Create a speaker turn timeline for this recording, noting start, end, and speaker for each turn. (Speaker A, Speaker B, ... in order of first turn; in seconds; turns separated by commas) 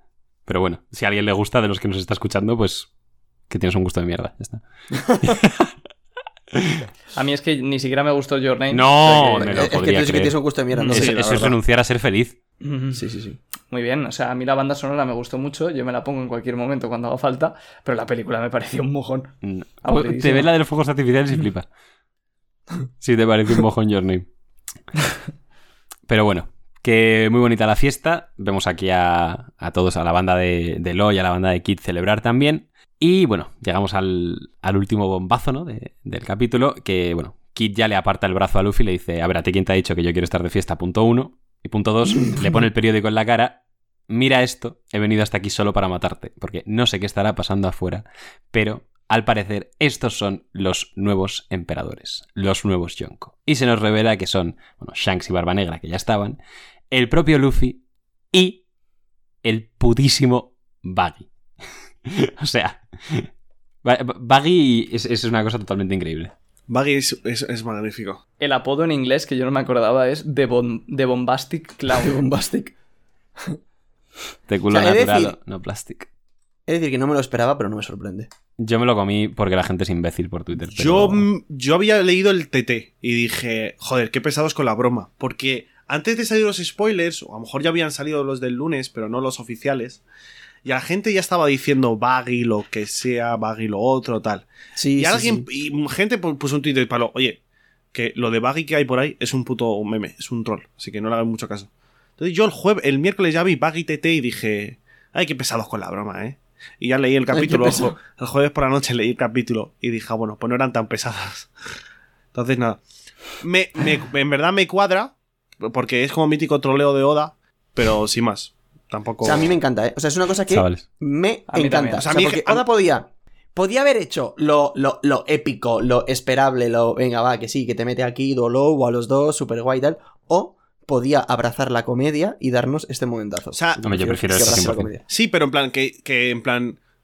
Speaker A: 0.5-2.9, Speaker A: 3.5-5.7, Speaker A: 6.5-6.9, Speaker B: 7.1-9.5, Speaker A: 8.7-10.4, Speaker C: 9.1-11.5, Speaker B: 10.7-11.1, Speaker A: 10.9-12.3, Speaker D: 11.2-11.5, Speaker B: 12.6-13.0, Speaker C: 12.9-13.4, Speaker B: 13.7-20.5, Speaker A: 19.4-21.7, Speaker A: 23.0-24.3, Speaker A: 26.1-56.4, Speaker A: 56.9-58.6, Speaker A: 59.4-61.3, Speaker A: 62.0-63.3, Speaker A: 63.8-66.3, Speaker D: 66.7-68.2, Speaker B: 68.4-72.2, Speaker C: 71.9-72.7, Speaker A: 74.5-76.1, Speaker C: 74.7-75.3, Speaker C: 76.7-78.3, Speaker A: 78.6-81.3, Speaker D: 80.7-90.0, Speaker D: 90.6-94.5, Speaker C: 94.8-95.5, Speaker D: 95.0-97.4, Speaker D: 97.9-111.5, Speaker C: 107.3-107.9, Speaker D: 112.3-112.8, Speaker D: 113.4-119.5, Speaker C: 119.2-135.0, Speaker A: 120.5-120.8, Speaker B: 121.5-122.1, Speaker D: 122.0-122.6, Speaker D: 133.5-136.8, Speaker A: 133.8-134.9